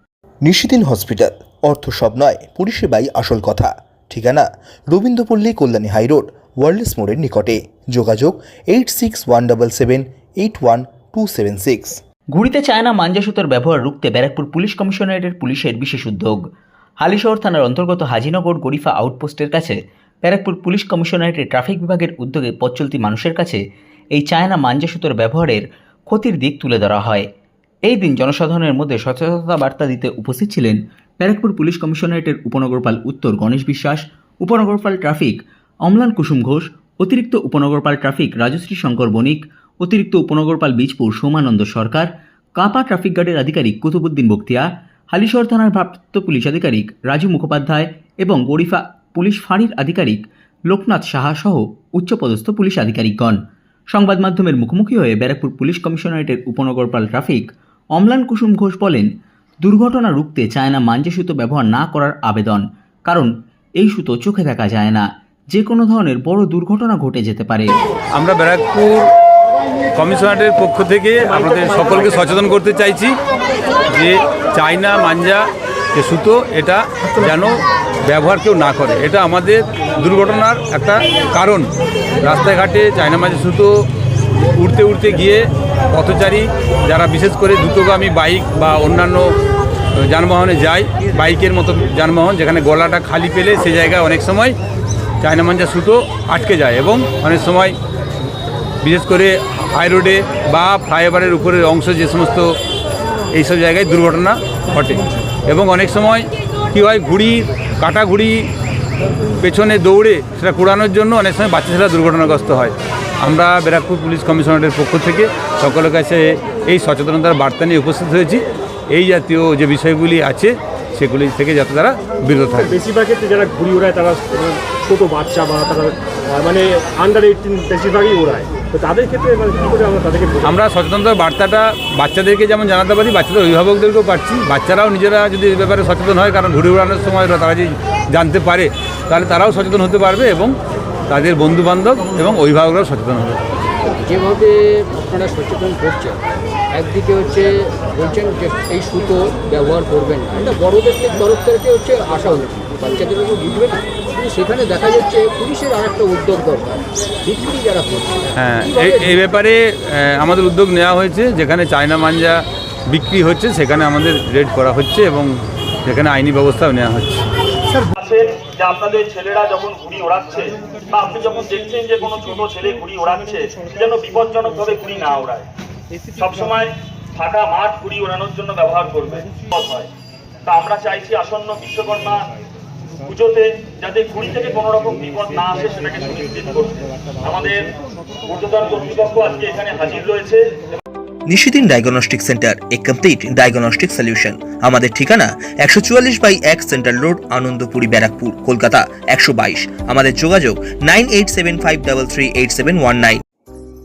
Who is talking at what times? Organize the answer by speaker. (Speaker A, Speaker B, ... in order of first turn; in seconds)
Speaker A: 0.5-12.0, 191.3-203.2
Speaker B: 12.3-16.4, 17.0-23.6, 24.1-27.3, 27.9-53.4, 53.9-57.5, 58.0-59.1, 59.6-67.8
Speaker C: 68.2-69.1, 70.0-73.2, 73.9-81.7, 82.2-83.7, 84.5-89.3, 90.0-94.6, 95.2-97.8, 98.8-102.5, 103.3-108.5, 109.4-122.8, 130.4-140.6, 141.1-143.4, 158.4-167.3
Speaker D: 122.7-130.4
Speaker E: 143.8-159.2
Speaker F: 168.0-175.5, 176.2-179.9, 180.5-182.3, 183.0-187.7, 188.2-190.5